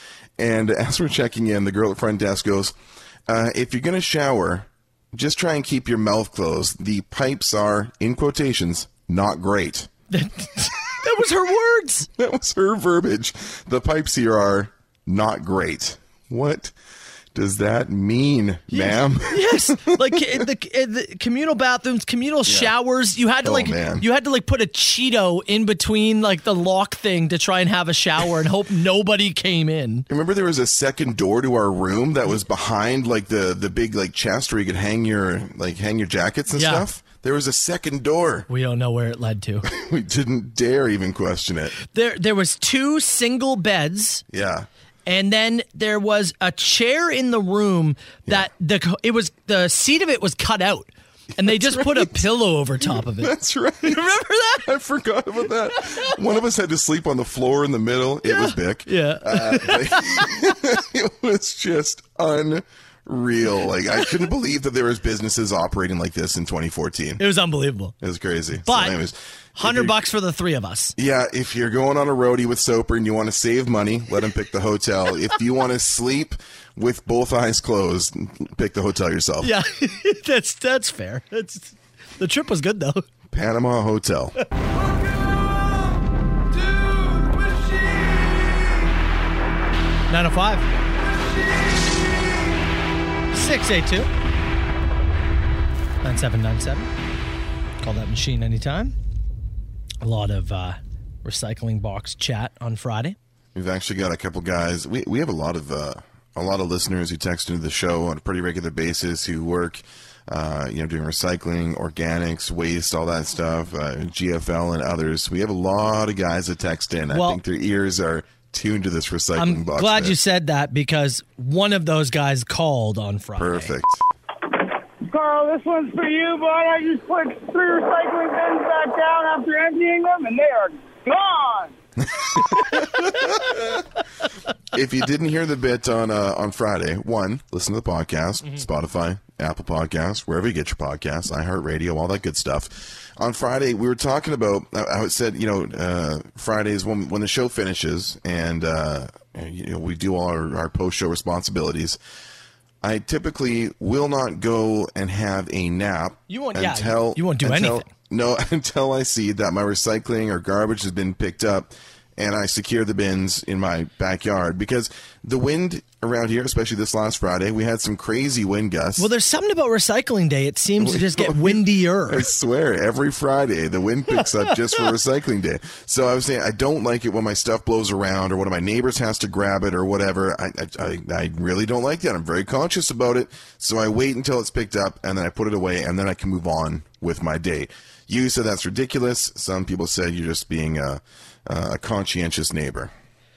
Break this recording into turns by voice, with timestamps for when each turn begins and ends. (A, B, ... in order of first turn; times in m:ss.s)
0:00.4-0:02.8 A
0:03.3-0:09.9 A
0:10.1-0:12.1 B
0:12.2-0:16.7 A
0:17.3-0:20.4 A
0:18.7-0:30.1 B
0:22.5-0:22.7 A
0:23.4-0:24.1 A
0:30.1-0:38.5 A
0:36.5-0:36.9 B
0:38.5-0:39.7 B
0:39.6-0:41.8 A
0:41.9-0:44.2 B
0:44.3-0:44.7 A
0:45.1-0:54.6 B
0:51.4-0:52.3 A
0:52.8-1:07.2 A
0:58.3-1:00.4 B
1:07.2-1:08.0 B
1:08.0-1:10.0 A
1:08.6-1:09.0 B
1:09.6-1:11.0 B
1:11.0-1:19.5 A
1:19.4-1:23.0 B
1:23.3-1:24.4 A
1:30.1-1:30.7 B
1:33.3-1:34.1 B
1:36.0-1:36.9 B
1:37.8-1:39.0 B
1:40.0-1:43.2 B
1:43.6-2:00.2 A
1:57.1-1:57.4 B
1:59.4-2:03.7 B
2:03.4-2:04.0 A
2:05.1-2:11.7 C
2:12.1-2:13.8 A
2:12.5-2:13.0 B
2:14.7-2:32.0 A
2:32.8-2:49.1 A
2:36.3-2:37.9 B
2:49.0-2:52.3 B
2:50.8-3:12.9 A